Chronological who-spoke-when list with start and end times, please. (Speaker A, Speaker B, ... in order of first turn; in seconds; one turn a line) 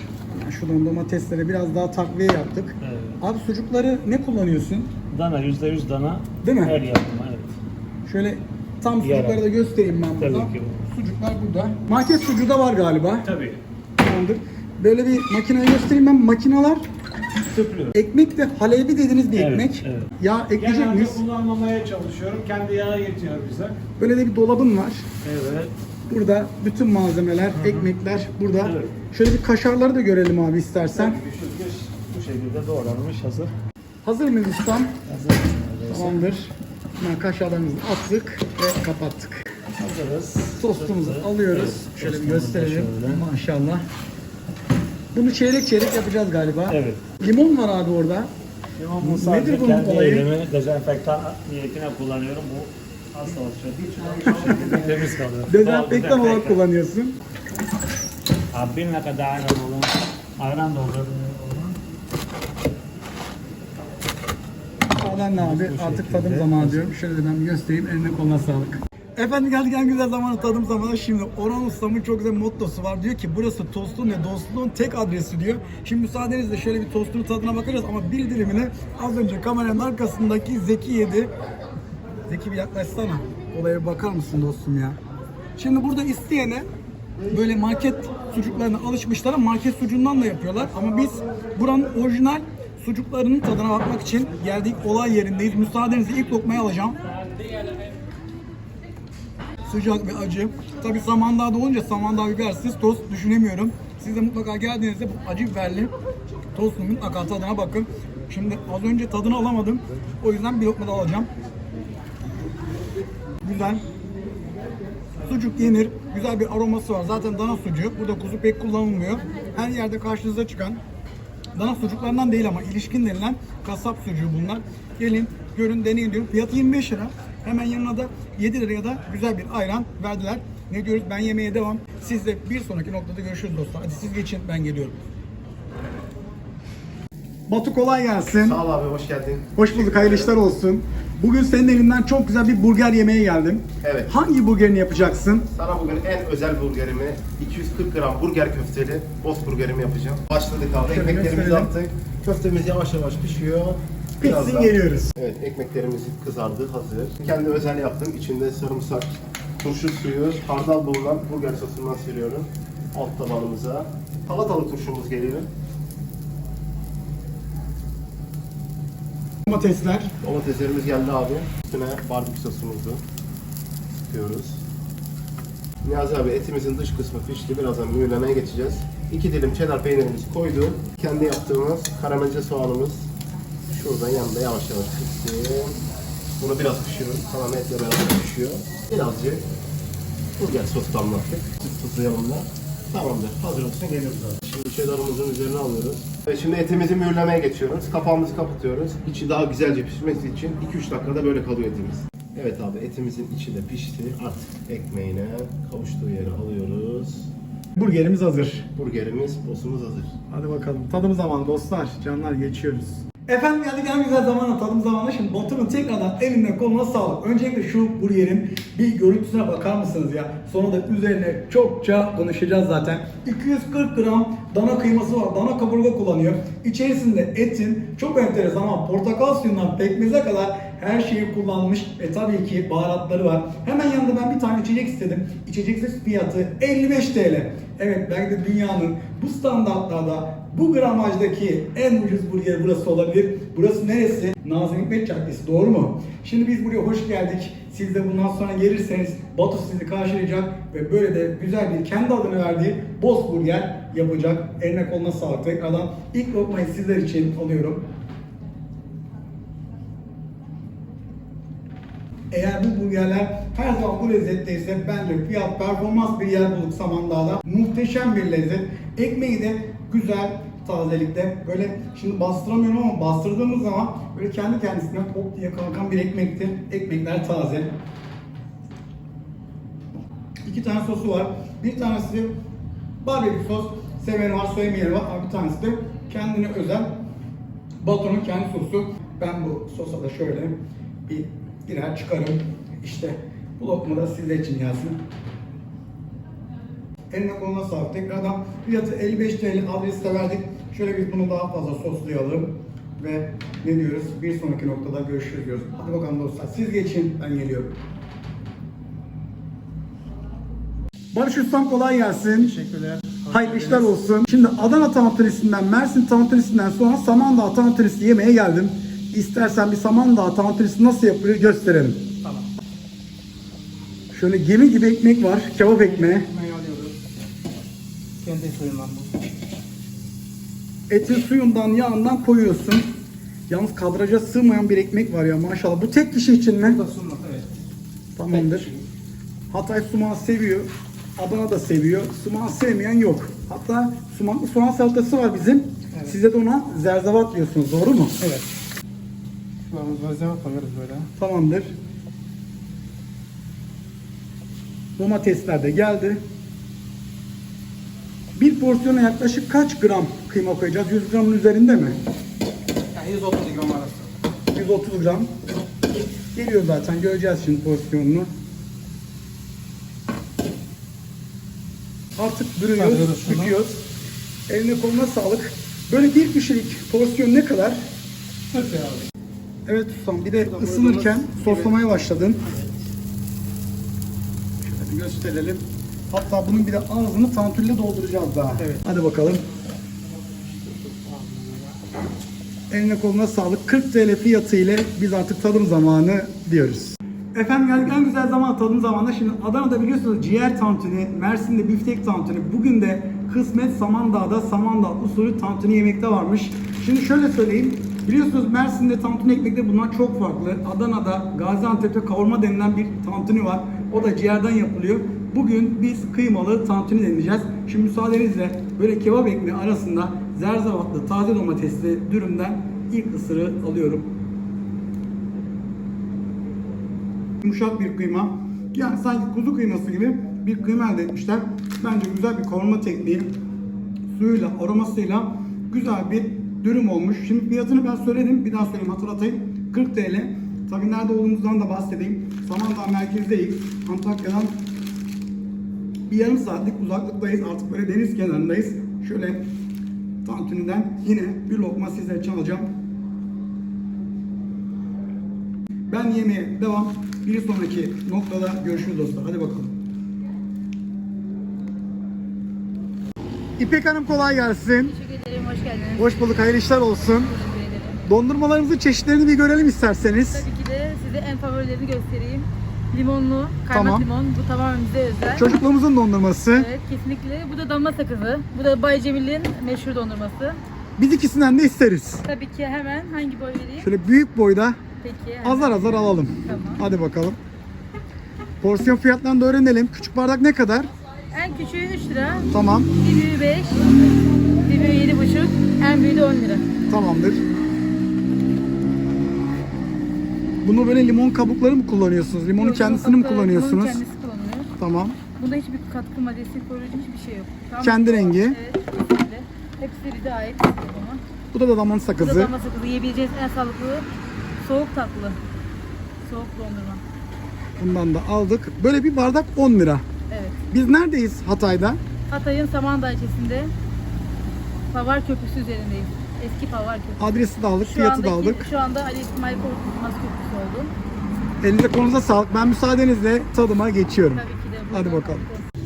Speaker A: 0.3-4.9
Speaker B: 2.8-3.2
Speaker B: 5.1-7.6
Speaker A: 6.4-6.8
Speaker A: 8.1-13.3
Speaker B: 9.0-9.4
Speaker B: 10.2-10.8
Speaker B: 13.2-13.6
Speaker A: 14.0-16.9
Speaker B: 17.4-18.0
Speaker A: 17.9-21.2
Speaker B: 19.3-23.8
Speaker A: 24.0-25.1
Speaker B: 25.2-25.7
Speaker A: 26.1-31.2
Speaker B: 27.5-27.9
Speaker B: 28.6-29.0
Speaker B: 30.8-33.5
Speaker A: 34.0-35.0
Speaker B: 35.1-36.2
Speaker A: 35.9-39.4
Speaker B: 39.8-43.2
Speaker A: 40.6-43.9
Speaker A: 45.1-48.3
Speaker B: 46.7-47.0
Speaker B: 48.8-56.6
Speaker A: 49.0-50.3
Speaker A: 54.4-54.8
Speaker A: 55.5-57.2
Speaker B: 58.5-61.8
Speaker A: 65.0-81.3
Speaker B: 65.0-66.9
Speaker A: 82.3-85.0
Speaker A: 85.6-86.7
Speaker A: 87.3-97.0
Speaker A: 99.7-105.9
Speaker A: 106.5-111.3
Speaker A: 113.4-113.8
Speaker A: 115.2-120.8
Speaker A: 121.5-135.0
Speaker A: 137.5-138.6
Speaker C: 138.4-140.3
Speaker A: 139.6-145.5
Speaker C: 143.8-144.1
Speaker C: 145.5-165.5
Speaker A: 150.8-151.8
Speaker A: 154.2-155.1
Speaker A: 169.5-170.1
Speaker C: 170.2-173.0
Speaker C: 174.1-174.6
Speaker C: 175.8-183.1
Speaker C: 183.7-185.8
Speaker C: 186.4-189.5
Speaker C: 190.4-207.3
Speaker A: 207.8-208.7
Speaker C: 208.8-210.2
Speaker A: 210.3-257.9
Speaker A: 262.3-277.7
Speaker A: 280.4-282.3
Speaker A: 283.0-287.0
Speaker A: 287.8-290.6
Speaker A: 291.1-295.0
Speaker A: 297.1-307.8
Speaker A: 311.1-312.6
Speaker D: 312.5-313.9
Speaker A: 313.3-322.1
Speaker D: 322.2-322.5
Speaker A: 324.1-326.3
Speaker D: 325.8-326.9
Speaker D: 328.2-329.1
Speaker A: 330.9-332.9
Speaker A: 333.5-336.8
Speaker D: 336.8-337.5
Speaker A: 338.2-338.7
Speaker D: 338.3-338.8
Speaker A: 339.5-348.2
Speaker D: 349.7-351.1
Speaker A: 351.2-351.8
Speaker A: 355.0-356.2
Speaker A: 358.4-362.0
Speaker D: 362.9-364.1
Speaker A: 364.5-365.3
Speaker A: 366.3-368.3
Speaker A: 372.2-373.8
Speaker D: 372.8-373.6
Speaker A: 374.5-377.9
Speaker D: 378.5-379.1
Speaker A: 379.7-382.5
Speaker D: 380.5-381.7
Speaker A: 384.6-389.4
Speaker D: 390.4-391.7
Speaker A: 392.7-424.1
Speaker A: 427.4-433.3
Speaker A: 434.1-444.6
Speaker A: 446.1-449.4
Speaker A: 450.2-452.7
Speaker A: 455.9-459.8
Speaker A: 463.6-464.9
Speaker E: 464.8-466.1
Speaker A: 466.0-467.3
Speaker E: 467.1-468.0
Speaker A: 468.1-470.5
Speaker E: 470.3-475.5
Speaker A: 473.7-474.1
Speaker A: 475.3-476.7
Speaker E: 476.5-480.6
Speaker A: 481.0-482.2
Speaker E: 482.2-483.9
Speaker A: 483.8-484.8
Speaker E: 485.0-486.8
Speaker A: 485.4-487.4
Speaker A: 488.6-490.9
Speaker E: 491.3-494.0
Speaker A: 492.5-492.9
Speaker E: 494.6-496.7
Speaker A: 496.9-497.4
Speaker A: 500.6-504.0
Speaker E: 502.6-504.7
Speaker A: 504.8-505.2
Speaker E: 505.4-511.2
Speaker A: 507.8-508.6
Speaker A: 511.5-512.5
Speaker E: 512.2-514.1
Speaker E: 514.6-515.4
Speaker E: 516.2-517.0
Speaker A: 517.8-520.0
Speaker E: 520.3-520.6
Speaker A: 520.7-522.0
Speaker E: 522.3-523.7
Speaker E: 524.9-531.0
Speaker A: 527.2-528.7
Speaker A: 531.6-535.4
Speaker E: 534.2-535.7